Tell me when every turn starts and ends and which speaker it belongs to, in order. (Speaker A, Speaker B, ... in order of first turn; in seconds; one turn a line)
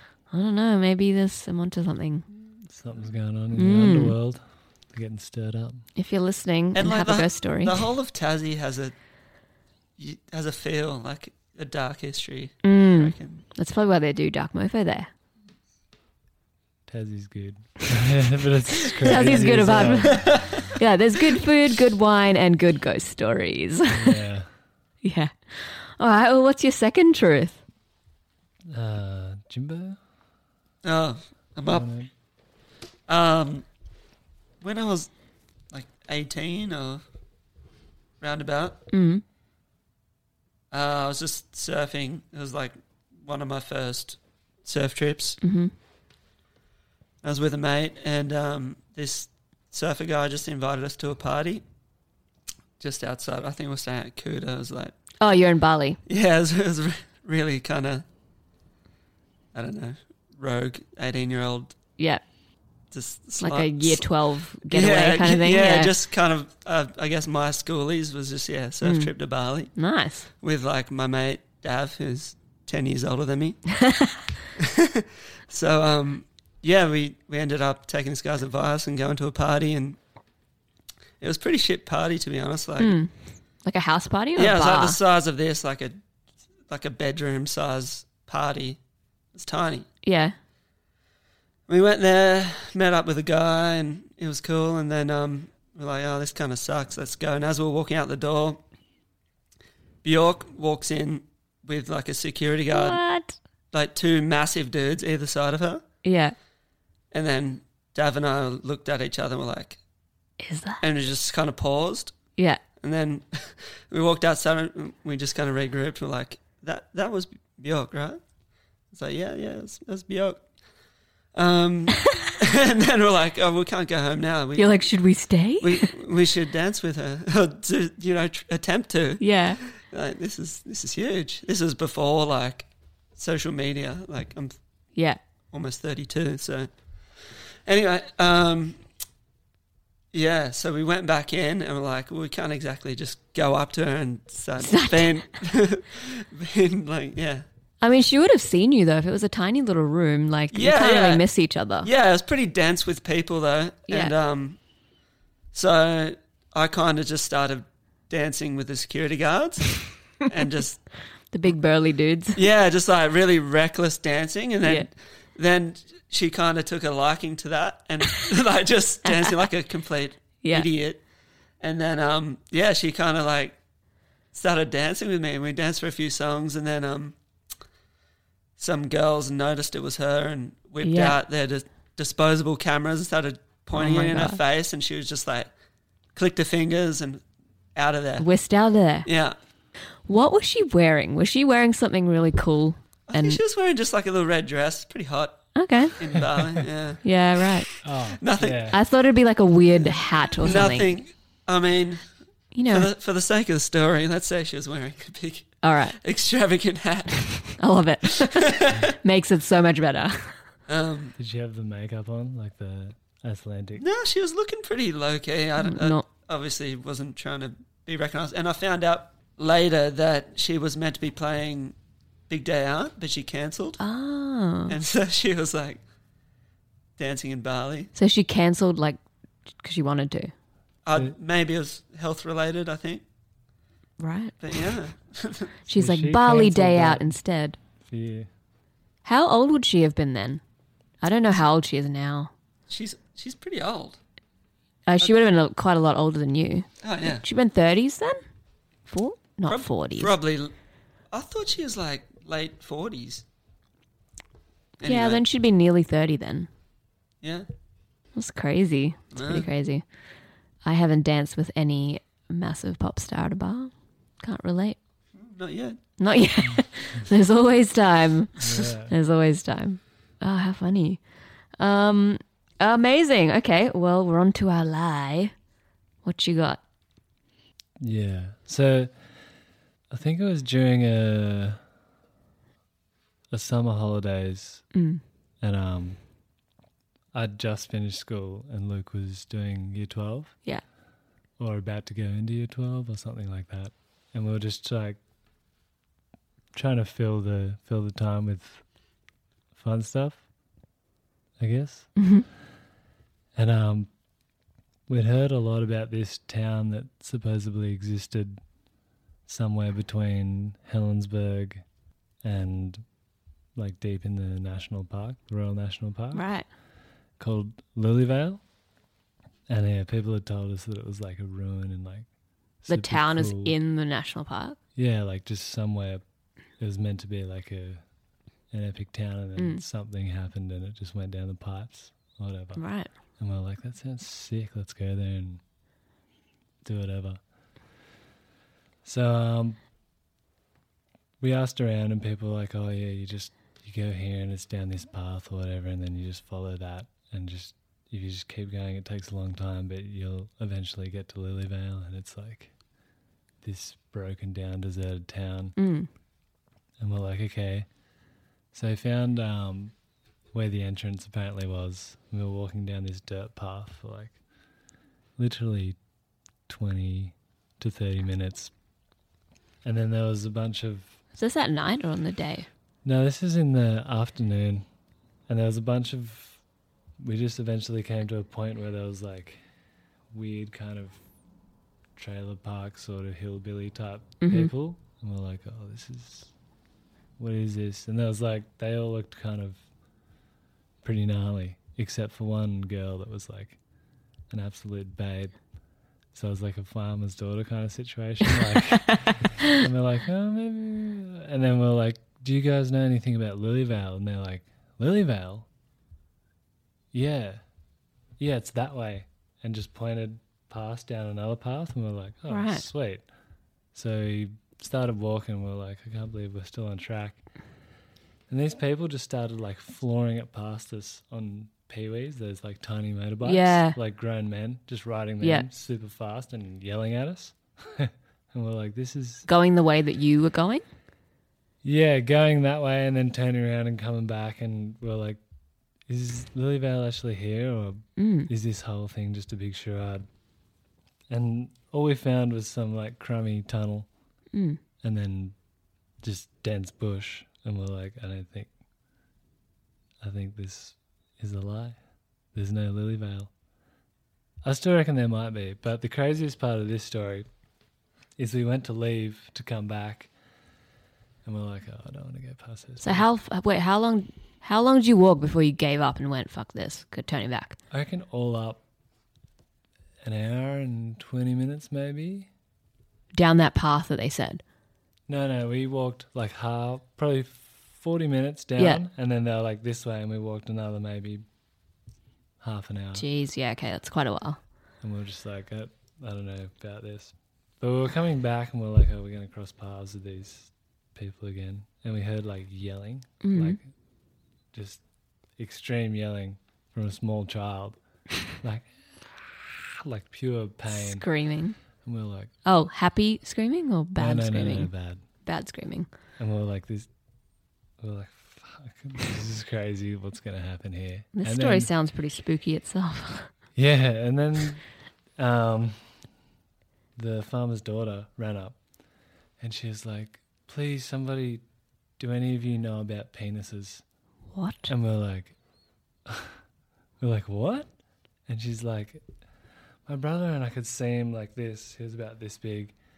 Speaker A: 0.3-2.3
Speaker B: 2.7-5.9
Speaker A: 3.5-4.2
Speaker A: 6.0-7.8
Speaker C: 6.8-8.9
Speaker C: 10.0-13.4
Speaker A: 12.6-15.1
Speaker B: 16.9-20.8
Speaker A: 19.0-24.2
Speaker C: 19.1-20.8
Speaker B: 23.9-24.5
Speaker A: 25.0-27.6
Speaker B: 28.7-30.0
Speaker C: 30.8-31.9
Speaker B: 31.7-32.1
Speaker C: 33.1-33.7
Speaker C: 34.6-35.1
Speaker C: 35.7-37.0
Speaker C: 38.2-38.8
Speaker A: 38.9-39.2
Speaker C: 40.7-45.4
Speaker A: 45.4-45.7
Speaker C: 47.2-51.6
Speaker C: 52.8-55.0
Speaker A: 55.2-56.0
Speaker C: 56.1-58.1
Speaker C: 59.5-61.8
Speaker C: 62.9-64.1
Speaker A: 63.4-65.9
Speaker C: 64.6-69.8
Speaker A: 68.8-69.1
Speaker A: 69.8-70.3
Speaker C: 70.4-73.7
Speaker A: 73.7-74.3
Speaker C: 74.6-80.0
Speaker C: 81.2-83.0
Speaker A: 82.8-83.1
Speaker A: 83.7-85.0
Speaker C: 84.4-86.0
Speaker C: 86.7-88.8
Speaker C: 89.3-89.9
Speaker A: 90.0-90.3
Speaker C: 91.7-98.6
Speaker C: 100.0-103.0
Speaker A: 102.7-103.4
Speaker C: 103.7-105.8
Speaker A: 106.0-106.3
Speaker C: 107.1-109.8
Speaker A: 110.4-110.8
Speaker C: 110.8-112.2
Speaker C: 112.8-118.2
Speaker C: 118.9-120.4
Speaker C: 121.3-124.8
Speaker A: 124.6-125.9
Speaker C: 125.6-134.5
Speaker A: 129.2-129.6
Speaker C: 135.5-138.8
Speaker C: 140.1-147.4
Speaker A: 144.6-145.2
Speaker A: 147.8-151.9
Speaker C: 150.5-151.3
Speaker C: 151.8-154.6
Speaker C: 155.5-160.8
Speaker A: 161.3-162.4
Speaker C: 162.4-171.0
Speaker A: 169.1-169.3
Speaker A: 170.4-170.7
Speaker C: 171.6-173.6
Speaker C: 174.3-177.2
Speaker C: 178.6-185.5
Speaker A: 180.8-181.2
Speaker A: 183.7-184.4
Speaker C: 186.2-187.2
Speaker C: 187.8-188.3
Speaker A: 188.2-189.1
Speaker C: 189.1-189.4
Speaker A: 190.1-193.4
Speaker C: 193.1-198.7
Speaker A: 195.6-196.0
Speaker B: 196.4-196.7
Speaker A: 197.0-197.7
Speaker B: 197.8-198.8
Speaker A: 198.7-200.9
Speaker C: 200.4-202.0
Speaker A: 202.6-202.9
Speaker C: 202.7-207.6
Speaker A: 205.6-206.0
Speaker A: 207.6-210.4
Speaker C: 208.2-208.9
Speaker C: 210.7-211.1
Speaker B: 211.2-213.8
Speaker C: 213.8-221.8
Speaker A: 215.6-216.1
Speaker C: 222.3-223.8
Speaker A: 223.8-224.8
Speaker C: 224.7-225.8
Speaker C: 227.0-227.9
Speaker A: 227.9-229.0
Speaker A: 229.6-230.3
Speaker C: 230.9-233.0
Speaker A: 234.0-234.4
Speaker C: 234.4-235.5
Speaker A: 235.7-237.6
Speaker B: 235.7-237.2
Speaker B: 237.8-238.3
Speaker A: 239.1-240.4
Speaker A: 241.0-242.3
Speaker C: 242.7-244.0
Speaker A: 244.9-248.2
Speaker C: 246.8-247.2
Speaker A: 248.9-250.1
Speaker C: 249.5-250.5
Speaker C: 251.1-253.2
Speaker C: 254.8-255.2
Speaker A: 254.8-256.5
Speaker A: 258.1-259.8
Speaker C: 259.1-259.5
Speaker A: 260.6-264.8
Speaker C: 265.2-265.8
Speaker A: 266.0-271.0
Speaker B: 268.4-268.9
Speaker A: 271.6-275.3
Speaker A: 276.0-276.6
Speaker B: 277.8-279.0
Speaker B: 279.9-281.6
Speaker B: 283.3-284.7
Speaker A: 284.7-285.0
Speaker B: 285.4-286.0
Speaker B: 287.1-290.4
Speaker B: 291.4-295.0
Speaker B: 296.5-298.6
Speaker B: 299.5-300.2
Speaker B: 301.4-301.9
Speaker A: 302.0-302.3
Speaker B: 303.4-303.9
Speaker B: 304.9-308.4
Speaker B: 309.3-311.6
Speaker B: 312.2-312.8
Speaker B: 313.6-316.2
Speaker A: 316.1-316.5
Speaker B: 317.2-318.4
Speaker B: 319.5-322.1
Speaker B: 322.6-323.6
Speaker A: 322.7-324.6
Speaker B: 324.8-326.0
Speaker B: 326.6-327.8
Speaker B: 328.5-332.6
Speaker A: 329.4-329.6
Speaker A: 332.6-332.9
Speaker B: 333.2-335.4
Speaker B: 336.6-337.2
Speaker B: 338.8-339.6
Speaker B: 341.2-352.5
Speaker B: 353.4-355.6
Speaker A: 355.6-355.9
Speaker B: 356.8-357.7
Speaker B: 358.5-359.7
Speaker B: 360.3-364.2
Speaker B: 365.2-365.8
Speaker B: 366.5-368.5
Speaker B: 369.6-371.0
Speaker A: 371.2-372.5
Speaker B: 372.8-374.6
Speaker B: 375.3-376.4
Speaker B: 377.0-379.4
Speaker B: 380.1-381.0
Speaker B: 382.0-386.3
Speaker A: 384.2-384.5
Speaker B: 387.2-389.6
Speaker B: 390.8-393.6
Speaker B: 394.3-395.4
Speaker B: 396.1-405.5
Speaker B: 406.9-407.4
Speaker B: 408.2-413.1
Speaker A: 412.3-412.6
Speaker B: 413.7-417.2
Speaker B: 418.3-429.3
Speaker A: 423.2-423.8
Speaker A: 425.2-425.5
Speaker A: 429.3-430.6
Speaker B: 431.6-435.2
Speaker B: 435.9-440.1
Speaker A: 438.0-438.3
Speaker B: 441.1-443.9
Speaker A: 444.3-444.6
Speaker B: 444.8-445.4
Speaker B: 446.0-448.5
Speaker B: 450.0-451.8
Speaker B: 452.3-453.3
Speaker B: 454.4-457.3
Speaker B: 458.2-460.1
Speaker B: 461.2-463.1
Speaker A: 462.8-467.6
Speaker B: 467.7-468.6
Speaker B: 470.0-472.3
Speaker A: 473.1-474.4
Speaker B: 475.1-481.2
Speaker B: 482.4-483.1
Speaker A: 482.9-484.4
Speaker B: 484.8-493.6
Speaker A: 493.2-493.6
Speaker B: 494.5-494.8
Speaker B: 495.4-497.8
Speaker B: 498.4-498.7
Speaker B: 499.4-501.1
Speaker A: 500.7-501.6
Speaker B: 501.8-502.3
Speaker A: 502.4-504.7
Speaker B: 504.0-505.0
Speaker A: 505.2-505.9
Speaker B: 506.2-506.9
Speaker B: 507.8-511.7
Speaker A: 511.1-513.3
Speaker B: 513.5-514.6
Speaker B: 515.2-515.9
Speaker B: 517.0-518.6
Speaker B: 519.4-521.4
Speaker B: 522.0-523.8
Speaker A: 524.3-524.7
Speaker B: 524.7-525.4
Speaker B: 526.1-526.4
Speaker B: 527.0-527.7
Speaker B: 528.3-529.0
Speaker B: 529.9-532.7